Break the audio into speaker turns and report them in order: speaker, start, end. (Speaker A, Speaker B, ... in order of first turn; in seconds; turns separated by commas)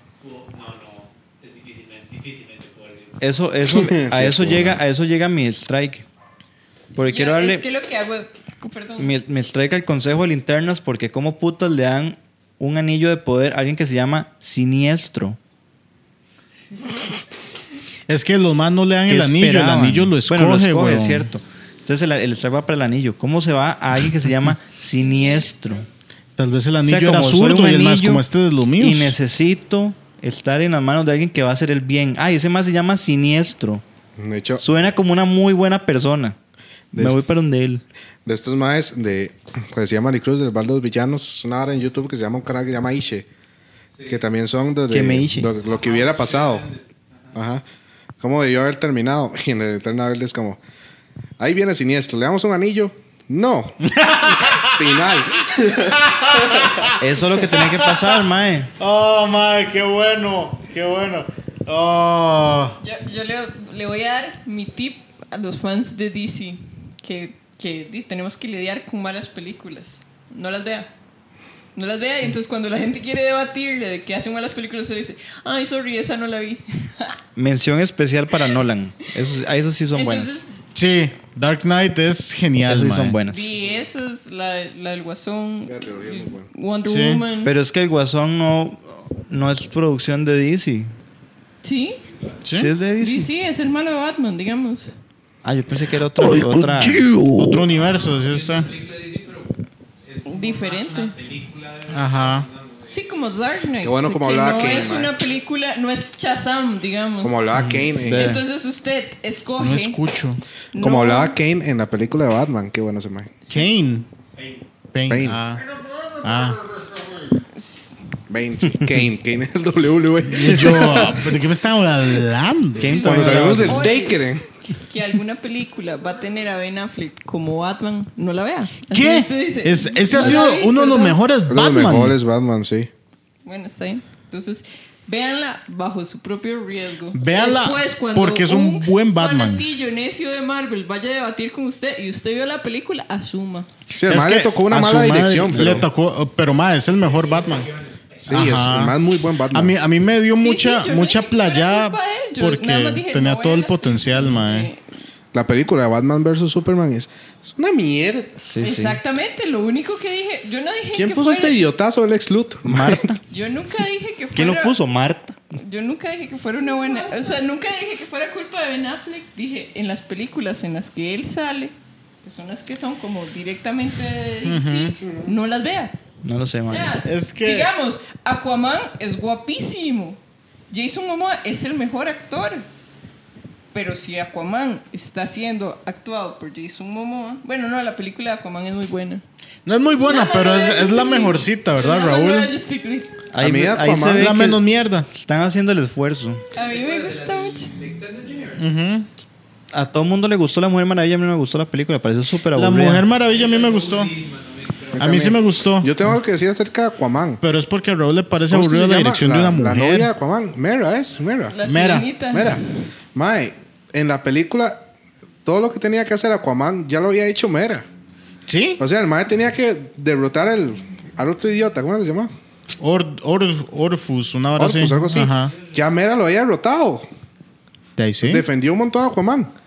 Speaker A: 0.2-3.2, Speaker B: 3.2-6.0, Speaker C: 3.7-4.8, Speaker B: 7.0-7.6, Speaker D: 7.0-9.1, Speaker B: 9.0-15.4, Speaker E: 18.1-21.3, Speaker B: 19.1-25.9, Speaker E: 26.4-29.1, Speaker B: 26.8-28.2, Speaker B: 28.8-33.8, Speaker C: 34.2-34.6, Speaker B: 34.6-36.4, Speaker C: 36.9-37.2, Speaker B: 36.9-37.8, Speaker C: 38.2-43.3, Speaker A: 44.0-44.2, Speaker C: 44.1-46.7, Speaker B: 44.9-45.5, Speaker A: 45.6-47.4, Speaker C: 47.3-47.6, Speaker C: 48.2-50.6, Speaker C: 51.4-56.9, Speaker E: 53.9-54.9, Speaker E: 55.9-58.1, Speaker B: 57.0-58.7, Speaker E: 58.8-62.8, Speaker D: 62.8-70.9, Speaker D: 71.7-77.2, Speaker B: 77.3-80.4, Speaker D: 79.9-80.5, Speaker E: 80.7-83.2, Speaker B: 82.6-83.5, Speaker D: 83.3-87.5, Speaker A: 83.6-83.8, Speaker C: 85.7-86.5, Speaker E: 86.9-87.2, Speaker B: 87.4-90.9, Speaker D: 91.6-92.0, Speaker A: 92.0-92.5, Speaker E: 92.4-92.7, Speaker B: 92.5-93.3, Speaker D: 93.0-94.9, Speaker B: 95.4-97.5, Speaker E: 96.4-98.7, Speaker A: 97.7-103.0, Speaker D: 100.2-101.1, Speaker E: 101.9-102.5, Speaker D: 102.9-107.5, Speaker C: 103.8-105.1, Speaker C: 107.2-108.4, Speaker B: 107.5-108.4, Speaker D: 108.1-110.0, Speaker E: 109.6-110.4, Speaker D: 110.7-111.3, Speaker C: 110.8-113.4, Speaker D: 113.4-113.7, Speaker E: 113.5-114.1, Speaker A: 114.3-114.7, Speaker E: 114.9-115.6, Speaker C: 115.1-115.4, Speaker E: 116.2-116.6, Speaker D: 117.5-118.0, Speaker C: 118.3-121.4, Speaker E: 120.3-123.7, Speaker B: 122.8-123.9, Speaker D: 122.8-124.2, Speaker C: 123.0-124.4, Speaker D: 124.8-131.2, Speaker E: 128.9-132.2, Speaker C: 130.2-130.4, Speaker C: 131.5-132.9, Speaker D: 133.4-143.7, Speaker E: 137.1-139.7, Speaker C: 143.9-145.9, Speaker E: 144.1-147.7, Speaker B: 145.5-145.8, Speaker A: 147.0-148.3, Speaker C: 148.2-149.7, Speaker E: 148.3-148.9, Speaker E: 149.5-154.7, Speaker D: 150.3-154.9, Speaker C: 155.3-158.4, Speaker B: 158.4-159.0, Speaker D: 158.6-161.6, Speaker C: 160.9-163.1, Speaker B: 162.7-163.2, Speaker D: 163.3-164.8, Speaker B: 164.3-165.4, Speaker D: 165.5-175.9, Speaker E: 174.4-175.0, Speaker B: 176.2-177.0, Speaker D: 176.7-180.2, Speaker E: 177.0-177.7, Speaker D: 180.7-182.7, Speaker D: 183.7-189.2, Speaker E: 189.7-192.5, Speaker D: 190.0-193.1, Speaker B: 193.3-196.4, Speaker C: 193.4-194.4, Speaker E: 194.1-195.1, Speaker D: 196.5-197.7, Speaker A: 196.5-198.6, Speaker E: 198.6-199.1, Speaker B: 199.7-203.0, Speaker E: 202.5-204.1, Speaker A: 203.2-205.3, Speaker C: 204.9-207.4, Speaker E: 205.0-206.1, Speaker E: 207.4-210.1, Speaker C: 208.5-211.6, Speaker D: 211.5-212.6, Speaker E: 211.6-212.1, Speaker C: 212.3-212.6, Speaker C: 213.1-214.8, Speaker C: 215.4-217.9, Speaker E: 218.4-218.8, Speaker C: 218.8-222.3, Speaker E: 222.8-225.5, Speaker C: 224.6-227.1, Speaker E: 228.0-228.4, Speaker C: 228.2-229.5